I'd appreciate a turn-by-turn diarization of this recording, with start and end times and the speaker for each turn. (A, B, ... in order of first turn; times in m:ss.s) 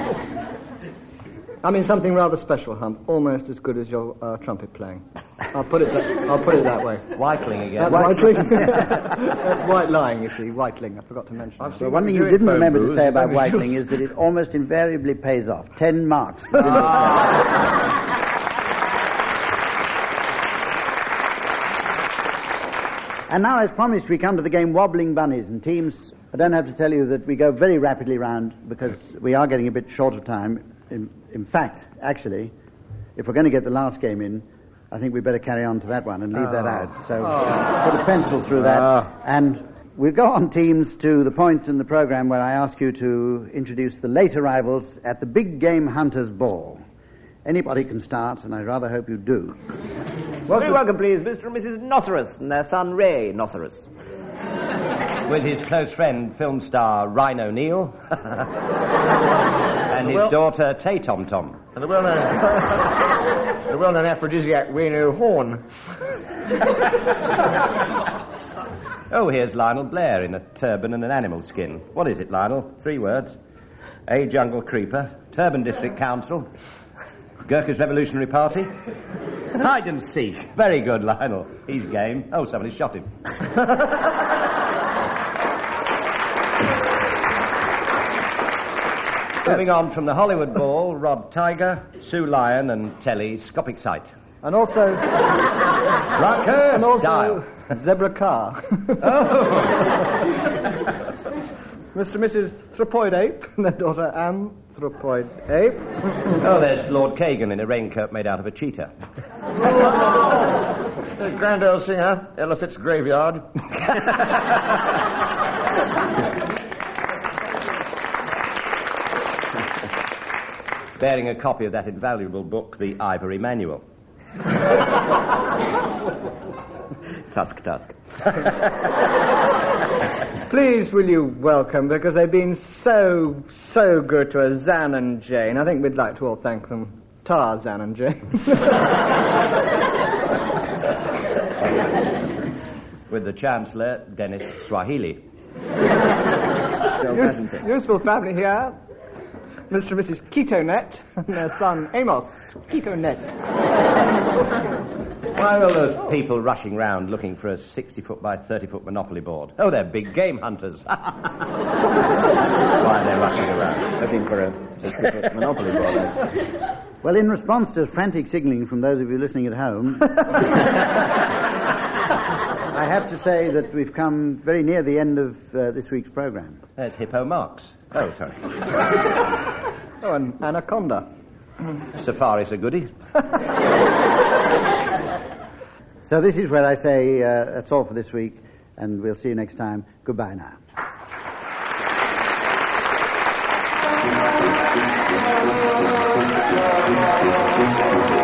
0:01.6-0:07.2 A
0:07.2-0:08.8 B
0:07.8-0:11.9 A
0:11.7-0:17.3 C
0:12.4-0:12.7 B
0:23.3-0:32.5 C
0:33.2-0:46.8 C
0:47.4-0:49.6 C
0:50.5-0:53.9 D
0:55.3-0:58.5 B
0:59.9-1:01.6 B
1:00.0-1:00.3 E
1:01.8-1:03.0 E
1:03.7-1:05.7 E
1:09.1-1:13.4 B
1:14.1-1:16.5 B
1:17.4-1:18.7 B
1:19.6-1:24.1 B
1:29.4-1:34.1 B
1:34.4-1:35.1 A
1:36.1-1:37.5 B
1:36.7-1:39.0 A
1:39.0-1:40.0 B
1:41.9-1:46.1 A
1:46.4-1:48.9 B
1:51.1-1:53.6 E
2:01.0-2:03.8 B
2:07.3-2:08.4 D
2:10.5-2:18.8 A
2:23.1-2:25.2 B
2:27.0-2:28.8 A
2:27.2-2:27.6 D
2:29.7-2:33.4 A
2:35.4-2:41.5 B
2:42.8-2:44.0 B
2:44.0-2:46.3 D
2:47.0-2:50.6 C
2:52.7-2:56.6 C
2:56.8-2:58.6 B
3:00.0-3:01.1 A
3:02.0-3:02.9 B
3:06.0-3:10.6 C